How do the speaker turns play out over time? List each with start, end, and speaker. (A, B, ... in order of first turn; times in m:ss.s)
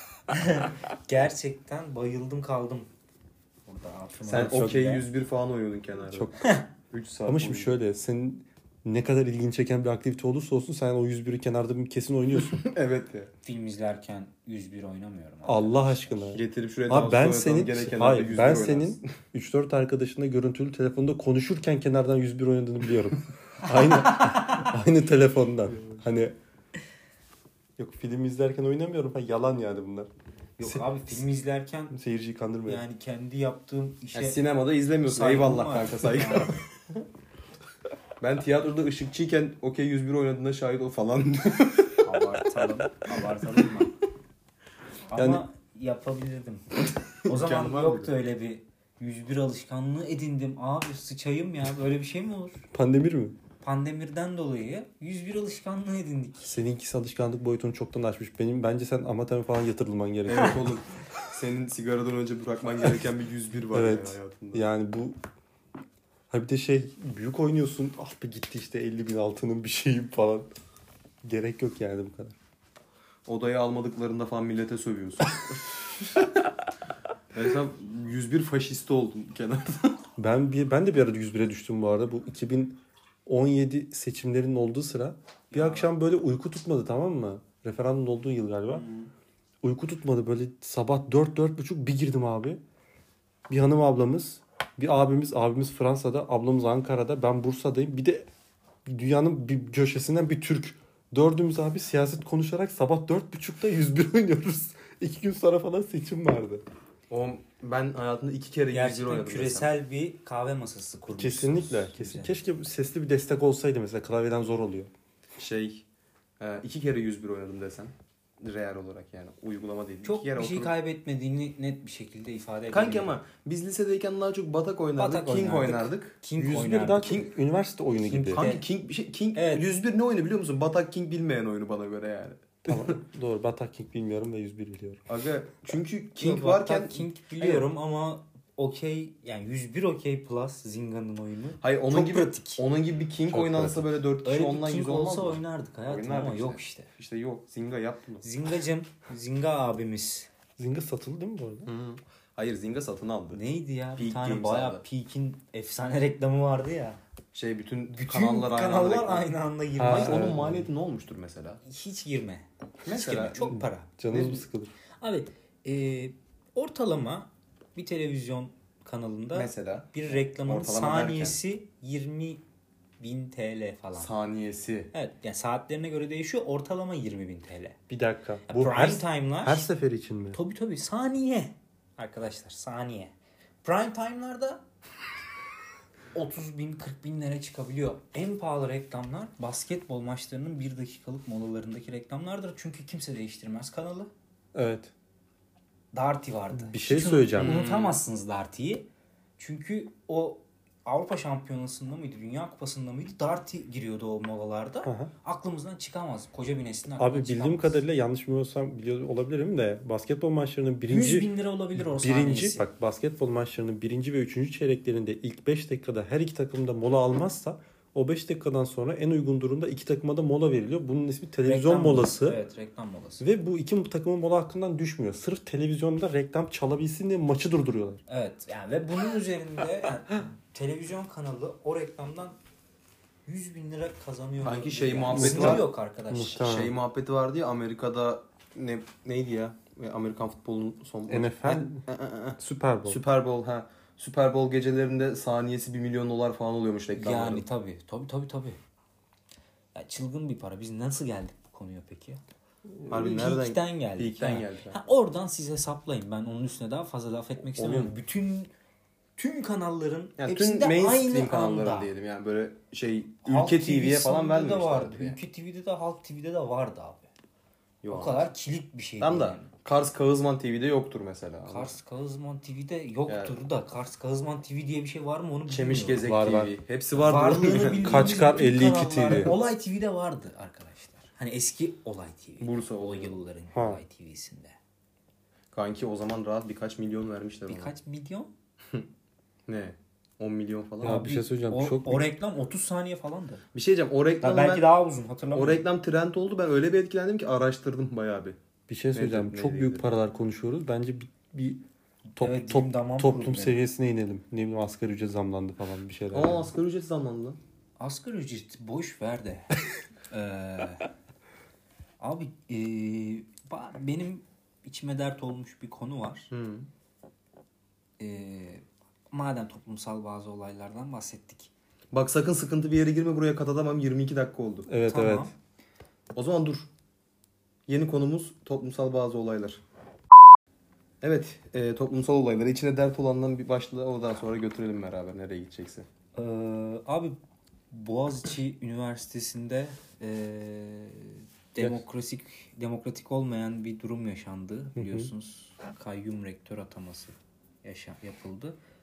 0:00.3-0:02.9 A
0:03.6-0:05.0 A
0:04.2-0:07.8 B
0:04.3-0:05.0 C
0:06.1-0:06.4 C
0:07.2-0:12.6 C
0:12.5-0:13.3 B
0:13.4-0:16.2 A
0:15.4-0:26.3 C
0:16.3-0:19.1 B
0:27.8-0:31.2 C
0:30.6-0:31.9 A
0:31.9-0:32.8 C
0:32.6-0:34.4 A
0:34.1-0:36.6 B
0:35.0-0:36.6 A
0:38.2-0:42.0 B
0:42.0-0:43.9 A
0:45.1-0:46.6 A
0:45.1-0:45.4 C
0:47.2-0:48.1 B
0:47.2-0:52.6 A
0:52.7-0:53.4 C
0:53.6-0:56.6 A
0:56.4-1:00.8 C
1:00.3-1:04.6 B
1:03.7-1:05.2 C
1:06.3-1:10.5 C
1:11.2-1:12.4 C
1:13.2-1:16.3 B
1:17.3-1:20.0 B
1:20.2-1:28.8 C
1:25.5-1:25.9 A
1:29.6-1:32.6 C
1:33.5-1:38.3 C
1:38.8-1:46.6 C
1:47.1-1:49.7 B
1:48.7-1:52.4 A
1:51.1-1:54.9 C
1:55.4-1:55.8 B
1:56.4-2:00.7 B
2:00.0-2:03.2 A
2:02.7-2:06.2 B
2:05.0-2:07.2 A
2:06.4-2:08.4 C
2:08.1-2:13.0 B
2:08.2-2:08.6 A
2:09.3-2:09.6 A
2:12.6-2:15.0 C
2:15.1-2:17.6 B
2:16.2-2:22.6 A
2:21.6-2:28.3 B
2:23.3-2:23.9 C
2:24.2-2:26.9 A
2:28.2-2:30.3 A
2:30.6-2:31.7 C
2:31.6-2:33.4 B
2:33.3-2:37.0 A
2:34.0-2:34.8 B
2:37.3-2:39.3 B
2:37.9-2:40.4 A
2:39.8-2:40.7 C
2:39.8-2:41.6 B
2:41.6-2:43.9 A
2:42.8-2:43.6 B
2:43.5-2:44.7 C
2:44.1-2:44.4 B
2:45.0-2:52.4 A
2:49.3-2:51.4 B
2:53.0-2:54.1 A
2:54.0-2:54.9 B
2:54.9-2:57.8 A
2:57.9-3:00.4 C
2:58.5-2:59.7 A
3:00.3-3:03.1 A
3:03.6-3:04.6 A
3:06.1-3:14.1 A
3:14.5-3:14.9 C
3:15.9-3:18.8 A
3:16.6-3:17.6 C
3:17.4-3:18.0 B
3:19.4-3:27.8 A
3:24.8-3:25.1 C
3:27.0-3:42.4 C
3:30.9-3:32.6 A
3:41.4-3:43.2 A
3:43.2-3:48.0 C
3:48.1-3:52.4 A
3:53.2-3:56.5 A
3:54.4-3:55.7 B
3:55.1-3:56.7 C
3:56.4-4:07.4 B
4:01.1-4:01.8 C
4:02.4-4:03.0 C
4:07.0-4:08.6 A
4:09.7-4:12.2 A
4:12.9-4:14.8 B
4:12.9-4:18.5 A
4:17.6-4:17.9 B
4:19.2-4:21.9 A
4:20.2-4:25.2 B
4:23.2-4:27.1 A
4:27.8-4:28.2 B
4:27.9-4:29.5 A
4:29.0-4:31.7 B
4:31.5-4:36.1 A
4:33.1-4:33.4 B
4:35.5-4:38.2 B
4:36.0-4:36.5 C
4:36.9-4:44.6 A
4:37.8-4:39.3 C
4:39.0-4:39.3 B
4:42.4-4:43.2 B
4:43.5-4:43.8 C
4:45.5-4:47.7 B
4:47.5-4:48.3 A
4:49.5-4:51.0 B
4:50.8-4:52.1 C
4:50.8-4:53.4 A
4:53.5-4:54.6 B
4:54.2-4:55.6 A
4:55.3-4:58.4 B
4:58.7-5:01.6 C
4:58.9-4:59.9 B
5:02.2-5:03.6 A
5:02.2-5:06.5 C
5:06.1-5:07.4 B
5:07.8-5:09.5 A
5:10.1-5:10.9 A
5:12.0-5:16.3 A
5:16.3-5:16.7 B
5:18.0-5:21.5 A
5:21.9-5:24.7 B
5:24.7-5:25.3 C
5:24.8-5:25.3 A
5:26.1-5:26.7 B
5:27.7-5:29.6 B
5:31.0-5:35.9 B
5:36.2-5:37.2 A
5:37.7-5:48.6 A
5:44.7-5:45.1 C